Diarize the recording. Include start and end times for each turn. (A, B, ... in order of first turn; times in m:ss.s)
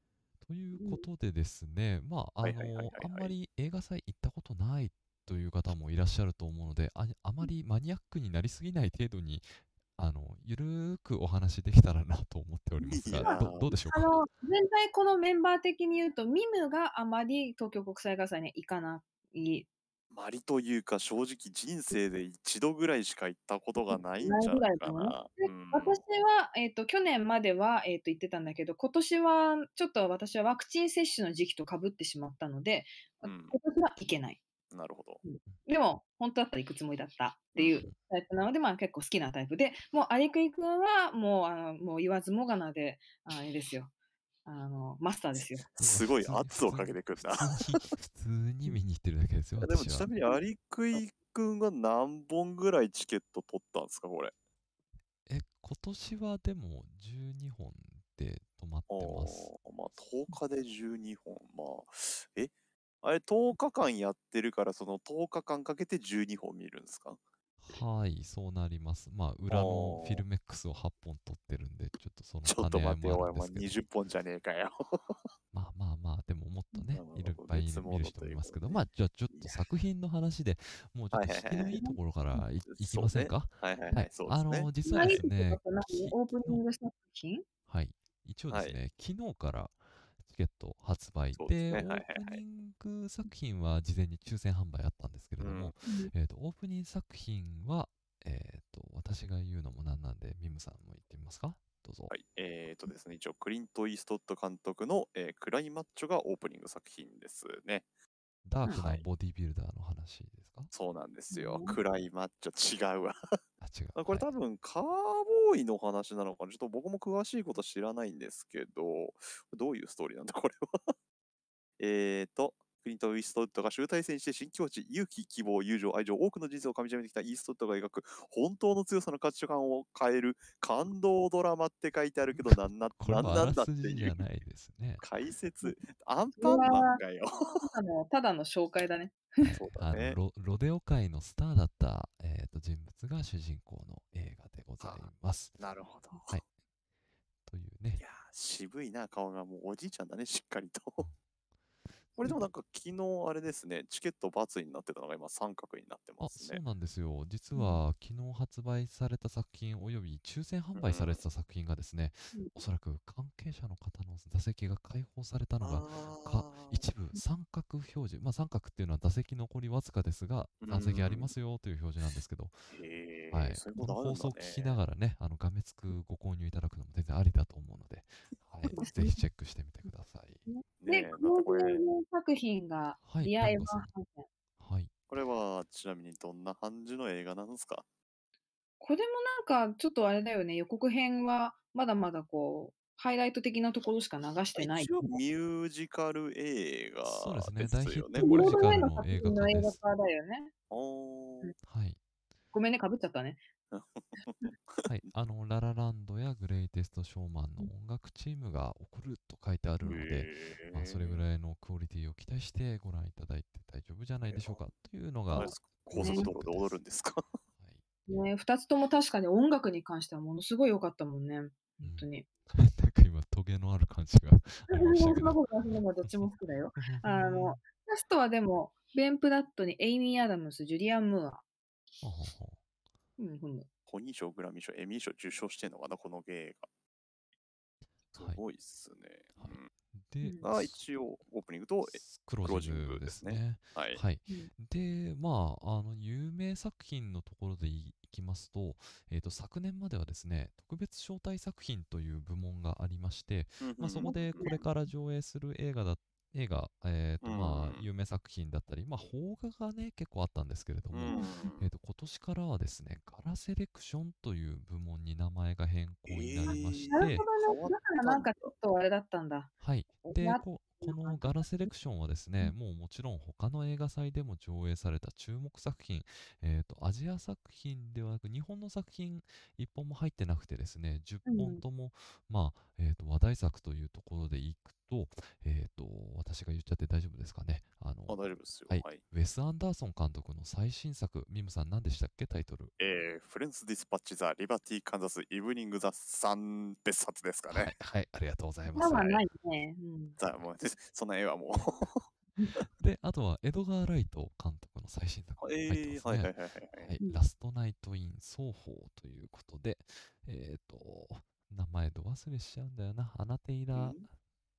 0:00.4-0:09.4 A
0:00.7-0:01.1 B
0:02.4-0:03.3 C
0:10.0-0:14.2 A
0:12.8-0:13.8 C
0:13.2-0:19.7 B
0:20.1-0:26.0 C
0:23.9-0:34.4 B
0:33.2-0:33.6 C
0:34.7-0:35.2 C
0:35.2-0:43.9 B
0:37.6-0:37.8 C
0:44.4-0:45.6 B
0:45.6-0:47.9 C
0:45.8-0:50.1 A
0:49.6-0:54.3 C
0:55.3-0:59.5 A
0:58.9-1:02.5 C
1:03.0-1:07.2 C
1:07.6-1:13.8 A
1:09.5-1:10.2 C
1:12.4-1:15.3 C
1:15.5-1:26.6 A
1:16.9-1:18.8 C
1:19.3-1:19.6 C
1:21.1-1:21.8 C
1:21.6-1:22.0 B
1:22.6-1:25.2 C
1:24.8-1:27.4 B
1:27.7-1:42.1 A
1:28.5-1:28.8 C
1:31.4-1:32.4 C
1:35.4-1:35.8 C
1:35.8-1:36.1 B
1:42.1-1:47.8 C
1:48.4-1:50.7 A
1:48.7-1:49.0 C
1:50.7-1:53.2 C
1:51.3-1:51.8 B
1:53.6-1:54.3 A
1:54.0-2:00.9 C
2:01.8-2:14.2 C
2:12.3-2:15.0 A
2:15.0-2:17.7 C
2:16.4-2:17.0 B
2:17.5-2:19.6 B
2:19.4-2:25.6 A
2:19.5-2:20.2 C
2:24.8-2:25.1 C
2:25.6-2:26.4 C
2:27.4-2:28.0 A
2:28.0-2:31.0 C
2:32.2-2:36.6 C
2:36.2-2:52.6 A
2:37.5-2:37.8 B
2:40.8-2:41.2 C
2:45.6-2:46.9 C
2:50.6-2:51.3 C
2:52.7-2:54.8 C
2:53.3-3:00.4 A
2:58.7-2:59.3 B
3:00.5-3:04.3 B
3:00.8-3:01.8 C
3:03.0-3:03.9 A
3:04.6-3:04.9 A
3:05.1-3:07.8 C
3:08.8-3:15.2 B
3:14.6-3:18.7 C
3:17.0-3:19.8 A
3:18.2-3:20.5 B
3:20.7-3:21.5 C
3:21.6-3:22.0 A
3:22.5-3:23.4 B
3:23.7-3:24.9 C
3:24.8-3:36.8 A
3:29.8-3:31.2 C
3:34.3-3:34.6 C
3:35.3-3:37.2 C
3:35.3-3:36.3 B
3:37.6-3:37.8 A
3:38.1-3:42.2 B
3:41.8-3:47.6 A
3:44.7-3:51.4 B
3:52.0-3:52.6 A
3:53.2-3:53.7 B
3:53.9-3:56.7 C
3:58.1-3:59.7 C
3:59.4-4:00.8 A
4:00.4-4:04.0 C
4:01.9-4:27.2 A
4:13.6-4:14.6 C
4:14.0-4:14.6 B
4:17.2-4:17.8 C
4:20.9-4:21.7 C
4:21.1-4:21.5 B
4:26.0-4:28.5 C
4:26.5-4:31.7 B
4:29.6-4:52.7 A
4:41.2-4:41.6 B
4:48.1-4:49.0 C
4:52.8-4:57.7 C
4:57.5-4:59.2 A
4:58.7-5:00.2 B
5:00.2-5:02.1 C
5:02.4-5:02.6 B
5:02.7-5:14.1 A
5:05.4-5:06.9 C
5:13.7-5:14.0 C